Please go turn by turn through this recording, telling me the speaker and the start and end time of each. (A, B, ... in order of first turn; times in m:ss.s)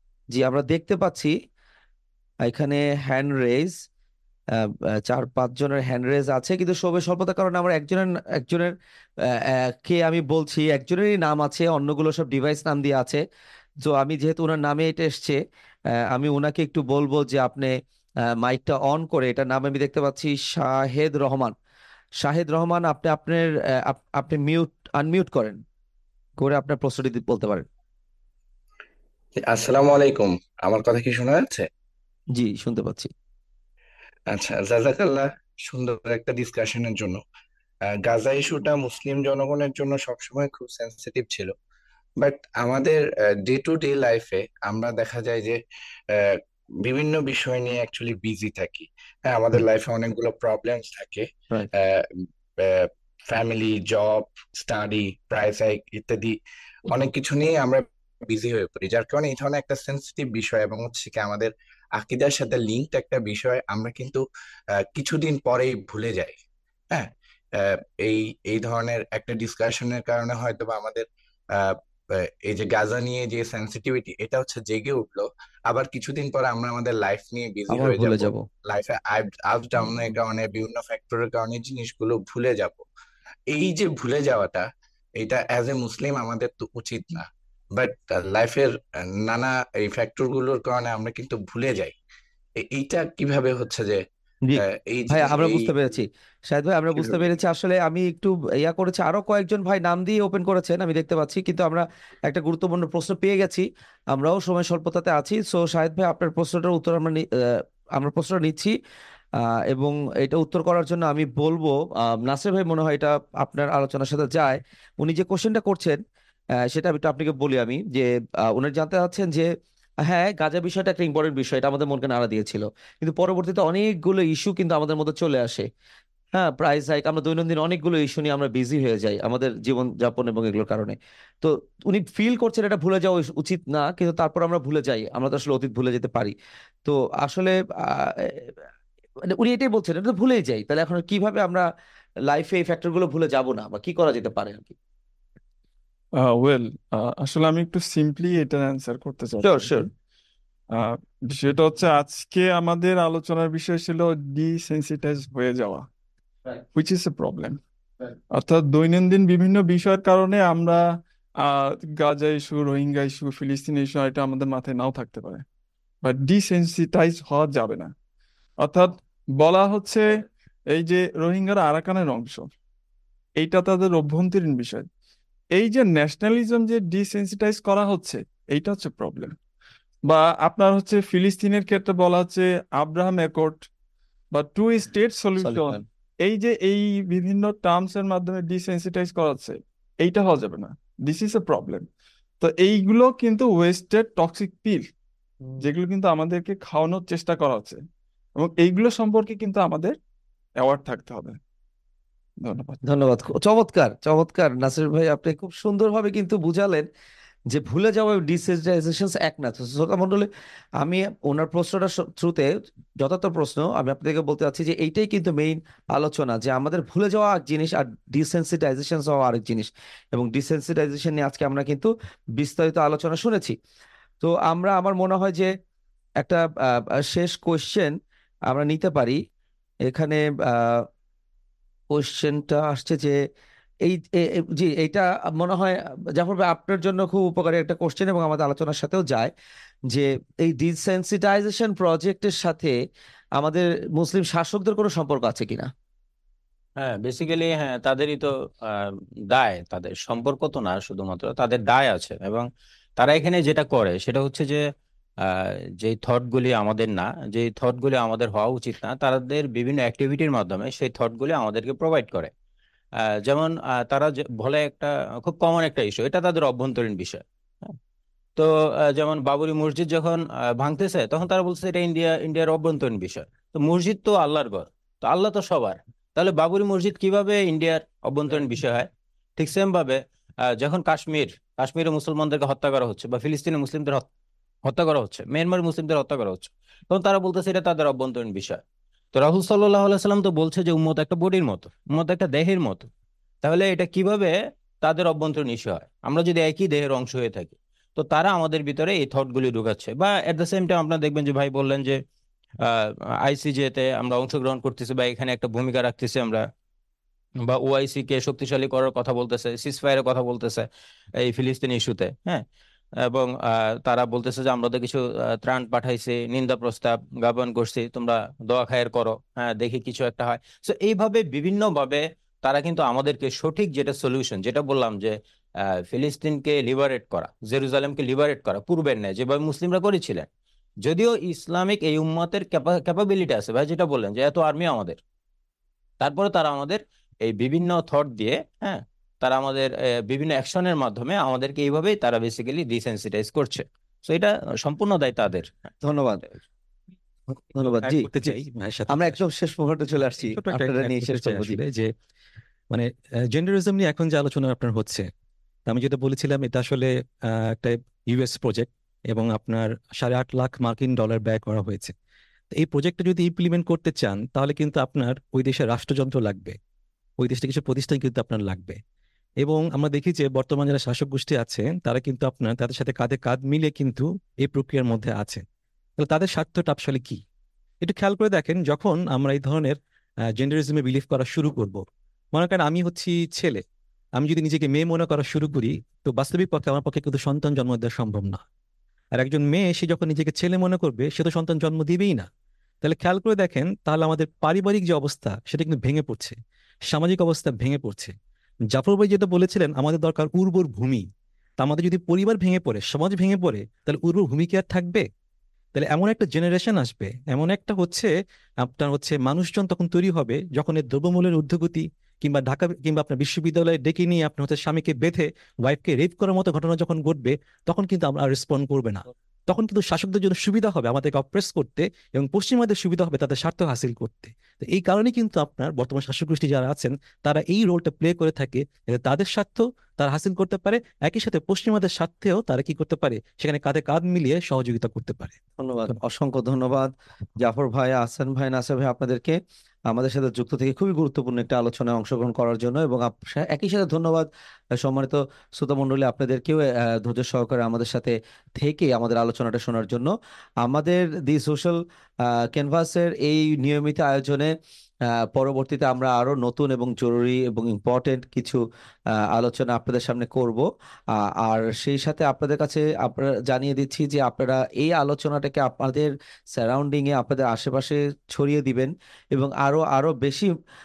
0:00.3-0:01.3 A
0:02.4-0:03.8 A
0:04.6-0:13.2 A
0:13.8-0:15.4 A
0:16.1-0:17.7 A
0:18.3-0:21.5 A
0:22.2-0:25.6 A
0:26.4-0:27.6 A
0:29.4-0:31.7 B
0:32.3-0:33.1 A
0:34.3-0:37.2 B
0:37.8-0:41.5 B
0:42.2-0:56.4 B
0:56.9-1:04.2 B
1:04.8-1:06.4 B
1:06.9-1:22.8 B
1:17.7-1:18.4 A
1:23.5-1:31.9 B
1:32.6-1:34.0 B
1:34.4-1:48.7 A
1:34.6-1:35.8 B
1:36.9-1:37.4 B
1:49.4-1:56.0 A
1:56.6-1:59.5 A
2:00.1-2:05.7 A
2:06.3-2:16.3 A
2:16.8-2:18.6 A
2:19.3-2:21.6 A
2:22.2-2:24.7 A
2:26.2-2:29.9 C
2:29.4-2:29.9 A
2:30.7-2:35.8 C
2:36.7-2:37.6 C
2:38.3-2:40.8 C
2:41.4-2:45.4 C
2:46.0-2:47.9 C
2:48.6-2:52.5 C
2:53.4-2:54.9 C
2:55.5-2:59.3 C
3:00.0-3:03.7 C
3:04.3-3:11.8 C
3:05.4-3:05.8 A
3:12.4-3:14.9 C
3:15.6-3:17.8 C
3:18.4-3:20.0 C
3:20.6-3:21.4 C
3:22.4-3:22.8 C
3:22.8-3:26.8 A
3:27.5-3:30.3 A
3:30.8-3:43.6 A
3:44.2-3:45.5 A
3:46.2-3:47.9 A
3:48.5-3:49.2 A
3:49.8-3:50.8 A
3:51.9-3:53.2 A
3:53.8-3:59.3 A
3:59.9-4:02.7 A
4:03.4-4:05.7 A
4:06.8-4:12.5 D
4:13.0-4:14.6 D
4:15.2-4:22.3 D
4:23.0-4:27.8 D
4:28.4-4:44.0 D
4:44.6-4:48.6 D
4:49.1-4:52.9 D
4:53.4-5:02.0 D
5:02.6-5:06.5 D
5:07.4-5:12.4 D
5:13.0-5:30.3 D
5:30.8-5:35.0 D
5:36.0-5:45.5 D
5:45.8-5:46.2 A
5:47.5-5:48.3 A
5:47.6-5:49.2 E
5:48.9-5:51.6 A
5:50.1-5:51.9 E
5:52.7-5:55.1 E
5:55.7-6:01.9 E
6:02.5-6:06.6 E
6:07.2-6:08.8 E
6:09.4-6:15.4 E
6:16.0-6:17.2 E
6:17.8-6:19.8 E
6:20.3-6:23.6 E
6:24.2-6:28.4 E
6:29.1-6:32.3 E
6:32.8-6:36.4 E
6:36.9-6:38.1 E
6:38.7-6:41.0 E
6:41.6-6:45.0 E
6:45.7-7:15.4 E
7:15.6-7:30.1 A
7:30.6-7:34.5 A
7:35.1-7:38.6 A
7:39.3-7:50.5 A